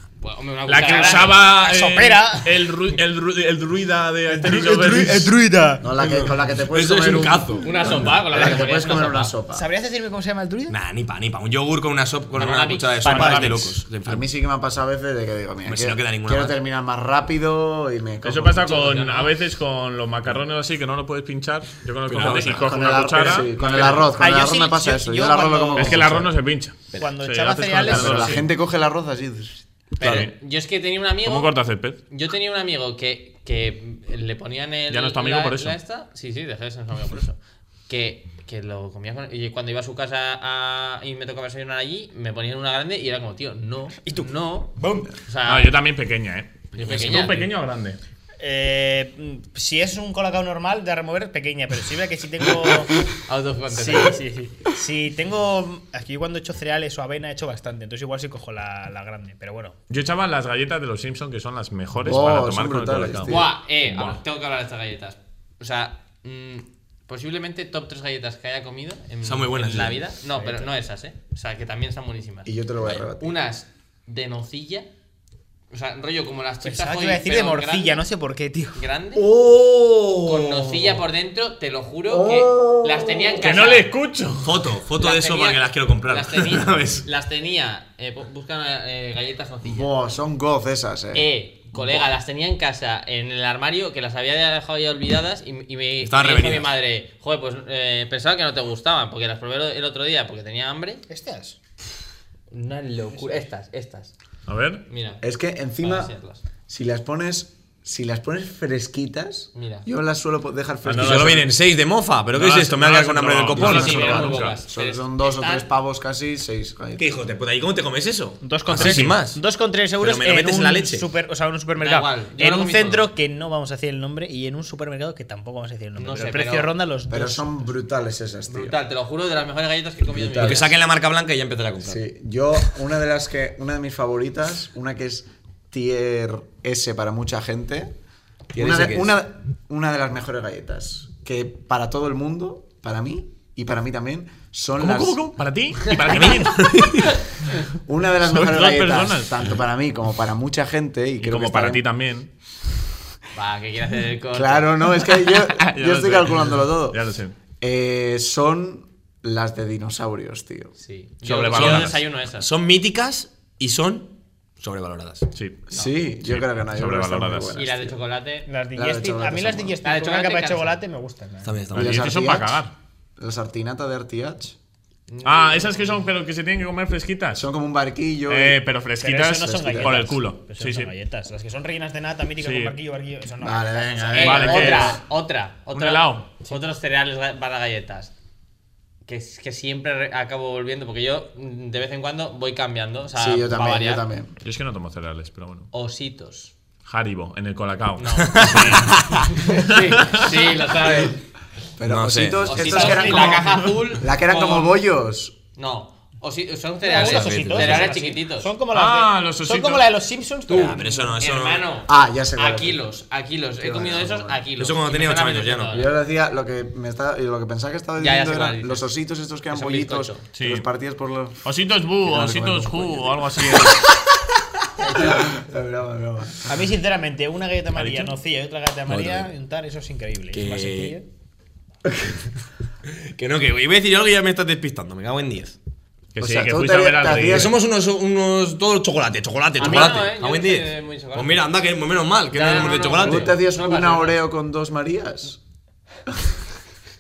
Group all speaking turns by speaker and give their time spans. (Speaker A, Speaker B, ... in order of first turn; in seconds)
Speaker A: 0.2-1.5, 7.6-9.3, 12.4-13.4, 18.7-19.3, 30.0-31.6, 32.1-45.7, 46.8-47.5, 53.3-54.2, 63.3-72.5, 73.2-74.9, 75.7-78.1, 78.7-79.3, 80.2-83.9, 85.0-89.9, 91.1-101.0, 102.5-104.1, 104.9-105.2, 105.8-106.4, 109.5-109.9, 113.6-115.7, 121.8-123.1, 126.0-126.7, 128.5-130.7, 153.3-155.2, 160.8-162.5, 167.6-168.5, 169.8-170.8, 175.1-176.1, 184.1-188.1, 189.1-194.1, 195.7-196.5, 198.0-201.2, 202.4-204.8, 205.6-208.5, 210.5-215.9, 218.0-218.9, 219.5-220.2, 224.8-225.4, 239.6-241.5, 242.3-244.2
Speaker B: 0.7-5.4, 13.1-13.8, 18.2-24.2, 25.7-28.5, 30.0-30.4, 31.2-32.0, 34.9-35.8, 45.5-48.0, 59.9-64.2, 83.4-84.6, 104.5-104.8, 110.8-111.4, 112.3-114.6, 118.7-119.2, 144.8-147.0, 148.2-149.5, 151.2-152.3, 155.5-157.3, 161.2-162.0, 165.3-165.7, 166.2-167.6, 171.7-172.7, 175.2-177.5, 178.3-180.9, 182.4-182.8, 184.1-185.0, 185.7-186.3, 194.4-195.7, 196.8-200.4, 208.7-209.9, 220.3-220.7, 221.4-223.8, 227.8-228.2, 236.1-237.5
Speaker C: 0.8-2.9, 4.3-5.9, 9.5-10.8, 13.1-13.4, 24.2-26.2, 27.0-28.4, 44.0-45.1, 48.4-53.1, 53.7-59.8, 76.6-78.8, 101.1-101.6, 118.4-127.7, 168.5-171.7, 179.0-184.7, 202.6-203.5, 206.8-211.2, 226.5-231.1, 239.6-240.0
Speaker D: 5.8-9.7, 14.1-19.1, 22.1-26.3, 27.8-29.6, 62.0-63.5, 72.5-73.4, 82.1-83.2, 89.7-92.1, 105.2-106.1, 106.7-111.5, 114.7-117.2, 127.1-128.8, 130.1-130.7, 131.8-137.9, 138.6-145.2, 147.8-151.8, 154.3-157.0, 157.6-160.7, 165.7-168.0, 168.8-169.8, 171.8-172.6, 173.2-174.6, 177.4-178.6, 179.4-180.2, 183.4-185.0, 193.2-194.3, 201.8-205.4, 211.9-212.8, 213.6-214.4, 215.7-221.4, 222.0-223.8, 224.9-226.5, 236.2-237.5, 243.0-245.4
Speaker E: 6.0-7.7, 10.7-14.3, 15.7-16.6, 22.1-24.0, 30.0-30.3, 69.2-70.1, 79.2-81.0, 84.4-87.1, 96.0-96.8, 110.9-114.4, 117.0-119.4, 120.0-121.1, 130.4-132.0, 138.5-139.2, 146.1-147.2, 161.5-165.3, 171.4-172.0, 198.2-199.3, 201.8-203.1, 206.9-207.9, 210.5-211.6, 214.6-215.8, 228.9-229.3, 230.3-231.0, 232.8-235.6, 237.3-243.3